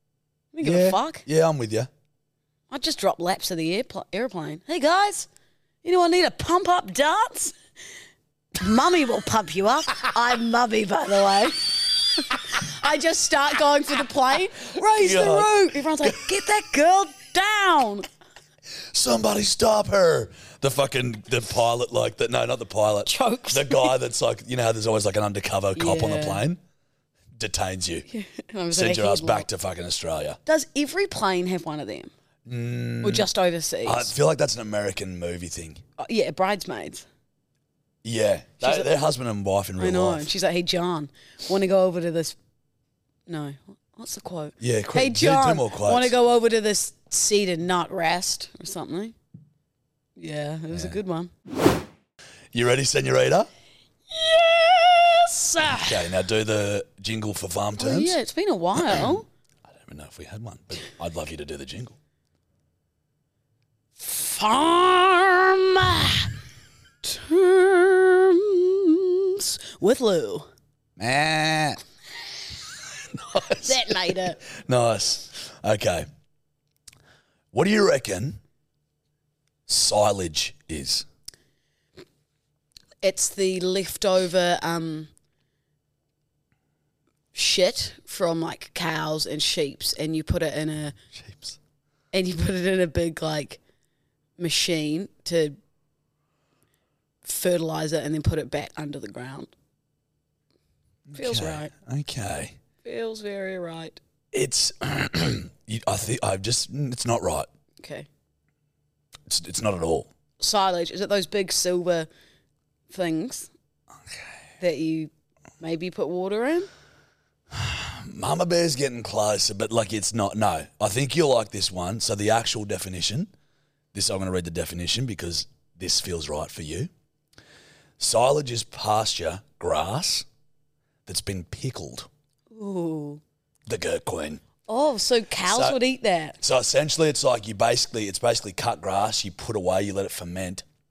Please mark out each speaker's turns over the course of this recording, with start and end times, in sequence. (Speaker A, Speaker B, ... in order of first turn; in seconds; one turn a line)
Speaker A: 0.5-1.2
Speaker B: 0.6-1.9
Speaker A: 2.7-5.3
Speaker A: 5.8-7.5
Speaker A: 8.6-18.1
Speaker B: 14.9-16.3
Speaker B: 18.9-26.6
Speaker A: 23.1-23.9
Speaker A: 25.8-26.4
Speaker B: 27.3-28.1
Speaker A: 28.1-29.5
Speaker B: 28.7-30.4
Speaker A: 30.4-32.1
Speaker B: 32.5-33.3
Speaker A: 33.0-34.1
Speaker B: 33.8-35.8
Speaker A: 36.0-37.0
Speaker B: 38.0-40.3
Speaker A: 38.6-38.9
Speaker A: 39.8-42.4
Speaker A: 43.3-49.1
Speaker B: 44.6-46.1
Speaker A: 50.1-51.3
Speaker B: 50.7-51.0
Speaker B: 52.5-53.5
Speaker A: 54.1-56.0
Speaker B: 55.7-58.1
Speaker A: 57.8-59.3
Speaker B: 58.8-59.0
Speaker B: 59.6-62.0
Speaker A: 64.0-66.3
Speaker A: 67.0-70.5
Speaker B: 71.0-71.8
Speaker B: 73.1-76.1
Speaker A: 73.5-74.4
Speaker B: 77.5-78.4
Speaker B: 79.7-81.0
Speaker A: 83.0-85.1
Speaker A: 87.3-90.9
Speaker B: 91.1-91.6
Speaker A: 92.1-93.6
Speaker A: 94.4-95.5
Speaker A: 97.2-99.5
Speaker B: 101.1-102.5
Speaker A: 101.1-101.7
Speaker A: 102.8-104.0
Speaker B: 104.3-107.5
Speaker A: 107.8-108.1
Speaker B: 109.3-110.1
Speaker A: 110.4-112.1
Speaker A: 112.9-113.5
Speaker A: 114.6-116.7
Speaker B: 117.5-123.3
Speaker B: 123.9-126.9
Speaker B: 128.0-130.2
Speaker B: 131.1-132.1
Speaker A: 132.5-133.2
Speaker B: 133.7-134.4
Speaker A: 134.7-136.4
Speaker B: 135.4-135.8
Speaker B: 136.4-140.6